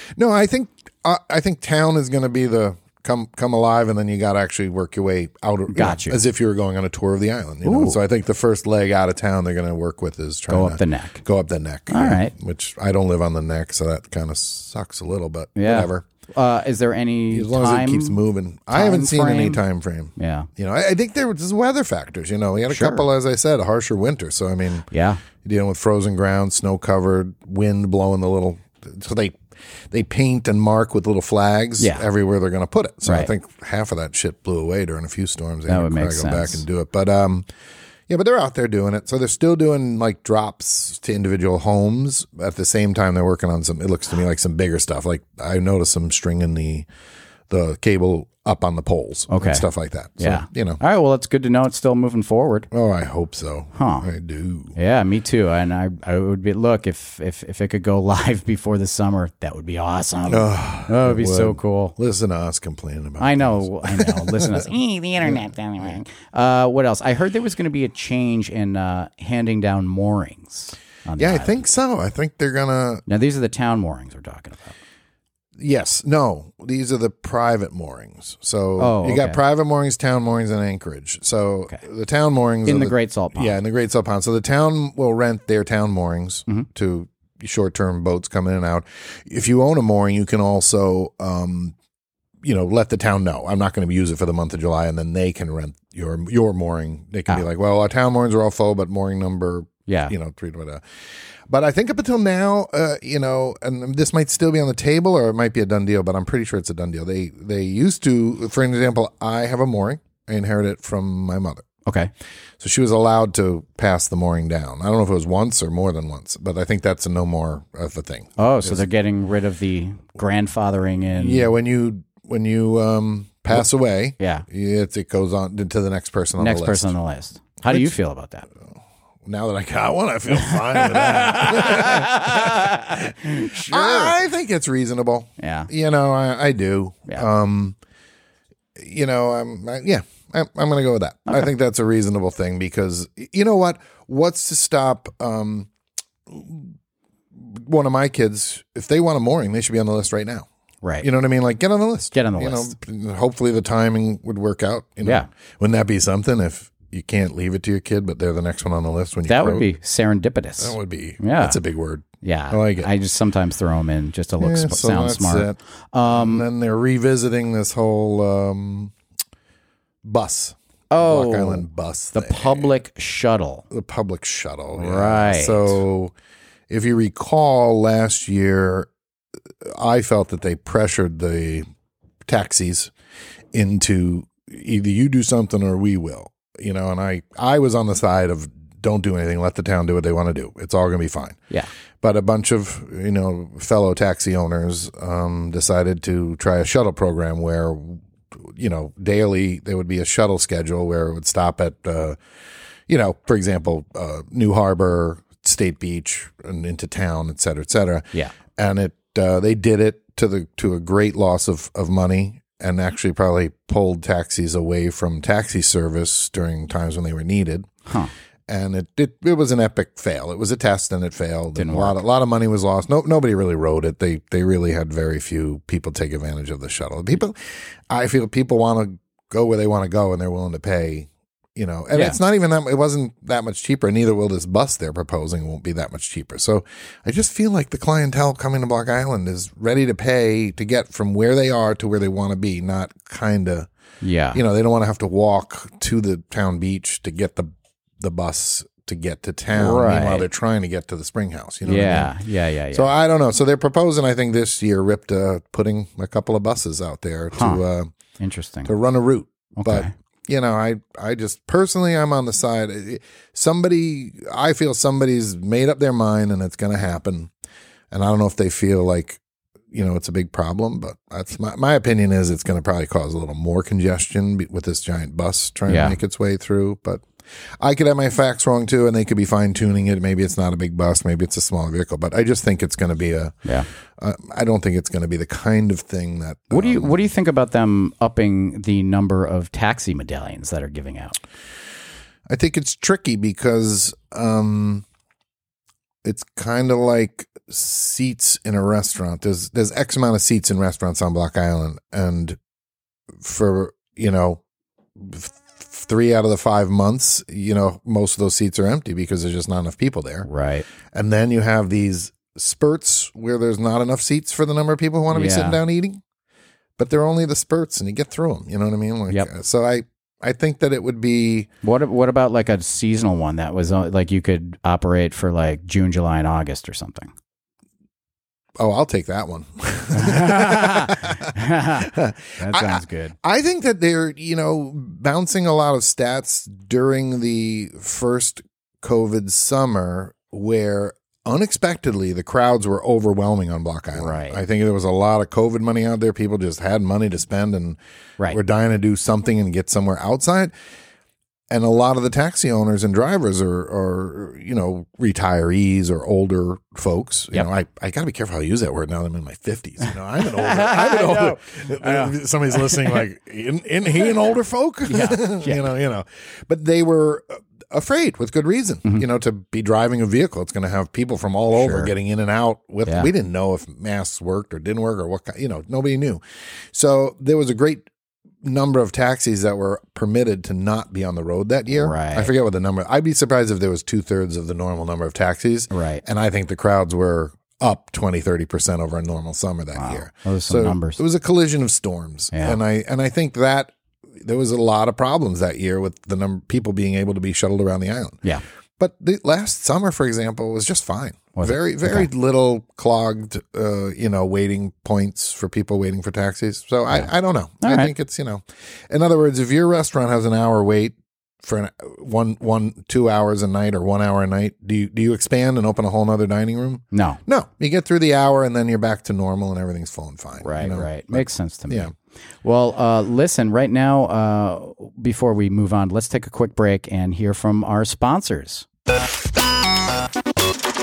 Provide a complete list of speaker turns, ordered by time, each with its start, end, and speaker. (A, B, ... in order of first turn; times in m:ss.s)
0:00.2-0:16.0 A
0:05.7-0:06.2 B
0:07.6-0:08.0 B
0:10.5-0:11.2 B
0:11.9-0:12.3 B
0:15.6-0:19.6 B
0:17.3-0:24.9 A
0:20.2-0:20.5 B
0:22.7-0:23.0 B
0:24.9-0:25.2 B
0:25.4-0:29.4 A
0:29.9-0:37.4 A
0:31.8-0:32.0 B
0:33.0-0:33.3 B
0:35.7-0:36.6 B
0:38.1-0:46.9 A
0:47.5-0:50.8 A
0:49.3-0:49.7 B
0:50.2-0:52.7 B
0:52.7-0:54.8 A
0:53.7-0:54.1 B
0:54.8-1:01.9 B
1:00.3-1:04.7 A
1:03.2-1:11.6 B
1:11.2-1:13.0 A
1:13.1-1:14.8 B
1:15.6-1:31.7 A
1:18.8-1:19.4 B
1:22.6-1:23.5 B
1:32.4-1:40.8 A
1:39.9-1:40.1 B
1:41.5-1:51.7 A
1:51.8-1:52.1 B
1:52.6-1:58.8 A
1:58.4-2:01.5 B
2:01.1-2:06.9 A
2:04.2-2:04.4 B
2:06.4-2:08.5 B
2:08.6-2:17.8 A
2:10.3-2:14.2 B
2:15.4-2:15.7 B
2:18.8-2:25.7 A
2:26.3-2:26.7 A
2:27.4-2:30.5 A
2:31.0-2:39.7 A
2:32.1-2:32.7 B
2:39.2-2:41.6 B
2:40.6-2:42.9 A
2:42.2-2:46.4 B
2:44.4-2:48.9 A
2:50.0-2:52.7 A
2:50.9-2:53.6 B
2:53.7-2:56.1 A
2:54.8-2:55.8 B
2:56.7-2:58.9 A
2:59.6-3:01.6 A
3:02.2-3:02.9 A
3:03.5-3:11.4 A
3:12.0-3:22.2 A
3:22.9-3:37.7 A
3:37.8-3:38.1 B
3:38.5-4:03.7 A
3:41.6-3:42.0 B
3:51.9-3:52.2 B
4:04.0-4:04.4 B
4:04.3-4:07.5 A
4:08.0-4:12.1 A
4:09.5-4:10.3 B
4:11.6-4:12.9 B
4:12.7-4:17.9 A
4:17.3-4:17.6 B
4:18.2-4:18.7 B
4:18.6-4:27.3 A
4:19.6-4:19.9 B
4:27.9-4:29.2 A
4:29.7-4:37.0 A
4:35.7-4:36.0 B
4:37.6-4:43.4 A
4:44.0-4:47.0 A
4:46.5-4:51.2 B
4:52.3-4:54.8 A
4:56.0-5:02.4 A
5:03.2-5:04.4 A
5:05.0-5:10.3 A
5:10.2-5:10.6 B
5:10.9-5:16.0 A
5:15.1-5:15.6 B
5:16.8-5:21.5 A
5:21.6-5:27.1 B
5:28.6-5:50.5 A
5:29.9-5:33.2 B
5:44.0-5:44.4 B
5:51.5-6:16.2 A
6:00.2-6:03.0 B
6:04.8-6:05.7 B
6:11.5-6:11.9 B
6:16.7-6:17.9 A
6:18.4-6:38.2 A
6:21.7-6:22.3 B
6:25.7-6:26.0 B
6:29.8-6:31.0 B
6:32.3-6:32.6 B
6:38.8-7:01.9 A
6:41.4-6:42.1 B
6:47.6-6:47.9 B
6:56.9-6:57.2 B
7:00.4-7:01.9 B
7:02.4-7:08.6 B